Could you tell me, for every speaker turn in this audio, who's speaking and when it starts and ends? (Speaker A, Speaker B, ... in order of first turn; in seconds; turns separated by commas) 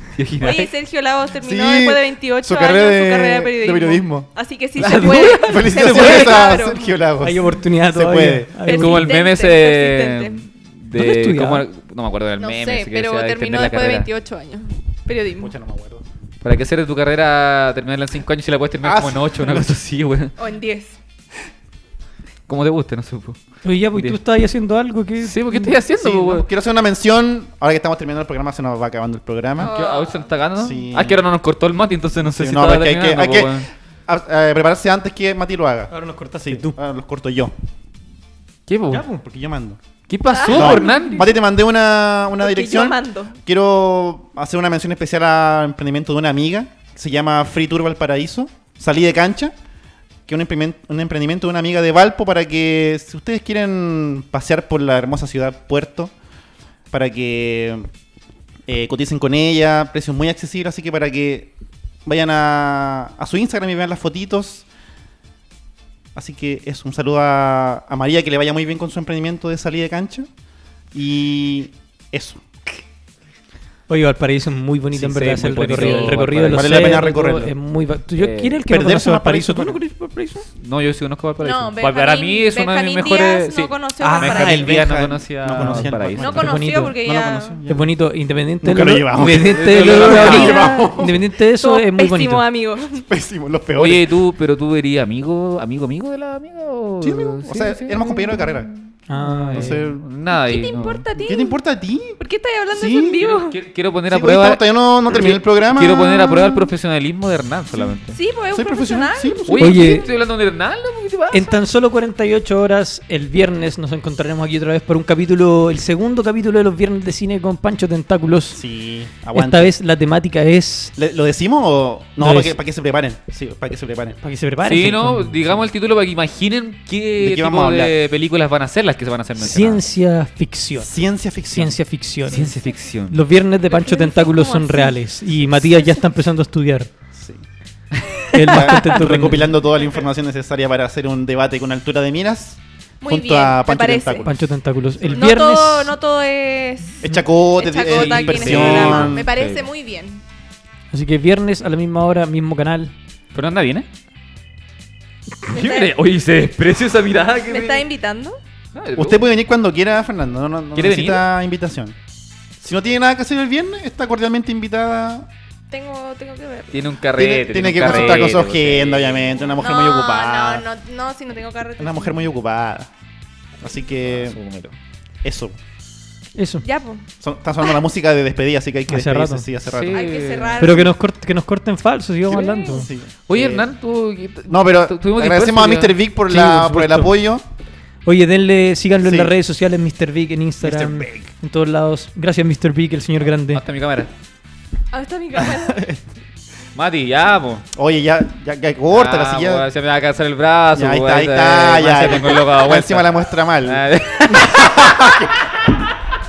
Speaker A: 0.2-0.7, Speaker B: 0.4-6.9, Speaker C: 1.4-4.3, Speaker A: 4.8-6.5, Speaker D: 4.8-5.4, Speaker C: 4.9-8.6, Speaker D: 7.2-9.1, Speaker B: 8.6-10.4, Speaker A: 8.7-14.1, Speaker D: 10.9-11.7, Speaker B: 12.4-15.5, Speaker C: 15.4-16.0, Speaker A: 16.4-20.3, Speaker C: 18.8-19.7, Speaker B: 20.4-21.0, Speaker A: 22.5-23.4, Speaker D: 23.6-25.8, Speaker A: 25.2-26.5, Speaker C: 26.0-29.7, Speaker A: 29.6-33.7, Speaker B: 29.6-30.3, Speaker C: 30.6-31.2, Speaker C: 32.2-37.5, Speaker D: 35.9-36.8, Speaker A: 38.7-39.0, Speaker D: 38.9-39.2, Speaker C: 39.2-39.8, Speaker A: 40.1-41.3, Speaker B: 40.3-41.3, Speaker C: 40.5-49.5, Speaker B: 42.4-43.4, Speaker C: 50.3-56.1, Speaker C: 56.9-57.9, Speaker C: 58.7-61.5, Speaker C: 62.0-64.7, Speaker C: 66.2-70.3, Speaker C: 70.9-72.4, Speaker D: 73.9-79.8, Speaker A: 74.9-77.0, Speaker C: 75.8-77.5, Speaker A: 78.2-78.6, Speaker C: 78.7-80.5, Speaker A: 80.5-86.5, Speaker B: 81.4-84.8, Speaker C: 84.0-87.9, Speaker B: 86.2-87.6, Speaker D: 86.4-87.0, Speaker D: 87.7-92.5, Speaker C: 88.6-91.2, Speaker A: 89.4-90.8, Speaker B: 90.0-93.0, Speaker C: 93.1-94.1, Speaker A: 93.8-98.5, Speaker C: 97.0-98.7, Speaker D: 99.1-99.8, Speaker A: 99.2-101.0, Speaker C: 99.5-100.0, Speaker B: 100.3-101.6, Speaker C: 101.2-102.2, Speaker B: 102.2-103.6, Speaker C: 102.7-103.3, Speaker A: 103.2-108.2, Speaker C: 104.1-106.5, Speaker B: 108.1-110.1, Speaker C: 108.5-109.9, Speaker A: 109.5-111.5, Speaker D: 109.6-110.1, Speaker D: 111.3-118.6, Speaker C: 118.5-119.8, Speaker D: 119.3-120.9, Speaker C: 121.0-124.2, Speaker D: 122.2-122.6, Speaker D: 124.2-125.6, Speaker A: 124.6-129.9, Speaker C: 127.2-127.9, Speaker D: 129.4-130.9, Speaker C: 130.8-131.8, Speaker D: 131.4-132.5, Speaker A: 132.3-133.2, Speaker B: 132.3-132.9, Speaker D: 133.1-136.9, Speaker B: 133.7-136.0, Speaker C: 137.1-137.4, Speaker D: 138.3-139.5, Speaker C: 138.4-144.5, Speaker B: 143.0-144.3, Speaker D: 144.2-145.9, Speaker B: 145.1-150.2, Speaker C: 147.0-149.3, Speaker A: 147.8-149.7, Speaker D: 150.9-152.9, Speaker A: 153.3-153.9, Speaker B: 155.5-155.9, Speaker A: 155.5-157.9, Speaker B: 157.4-158.4, Speaker A: 158.8-159.2, Speaker C: 159.0-162.0, Speaker A: 160.8-161.3, Speaker C: 162.6-165.3, Speaker B: 165.7-166.9, Speaker A: 166.7-169.5, Speaker C: 167.1-170.7, Speaker B: 167.9-168.3, Speaker B: 169.6-172.2, Speaker C: 171.8-172.9, Speaker C: 173.6-174.4, Speaker A: 174.1-174.8, Speaker C: 175.2-175.6, Speaker D: 176.4-176.6, Speaker B: 176.6-177.1, Speaker C: 177.2-180.1, Speaker D: 178.9-179.5, Speaker A: 179.7-180.7, Speaker B: 179.9-180.9, Speaker D: 180.6-182.9, Speaker A: 182.3-186.0, Speaker C: 182.7-183.7, Speaker C: 184.5-187.4, Speaker D: 186.3-187.1, Speaker D: 188.1-193.6, Speaker C: 189.0-189.3, Speaker C: 190.6-191.3, Speaker A: 193.5-194.1, Speaker B: 194.9-195.9, Speaker C: 195.4-196.0, Speaker A: 196.8-197.7, Speaker C: 197.7-199.7, Speaker A: 198.9-205.3, Speaker C: 200.7-205.3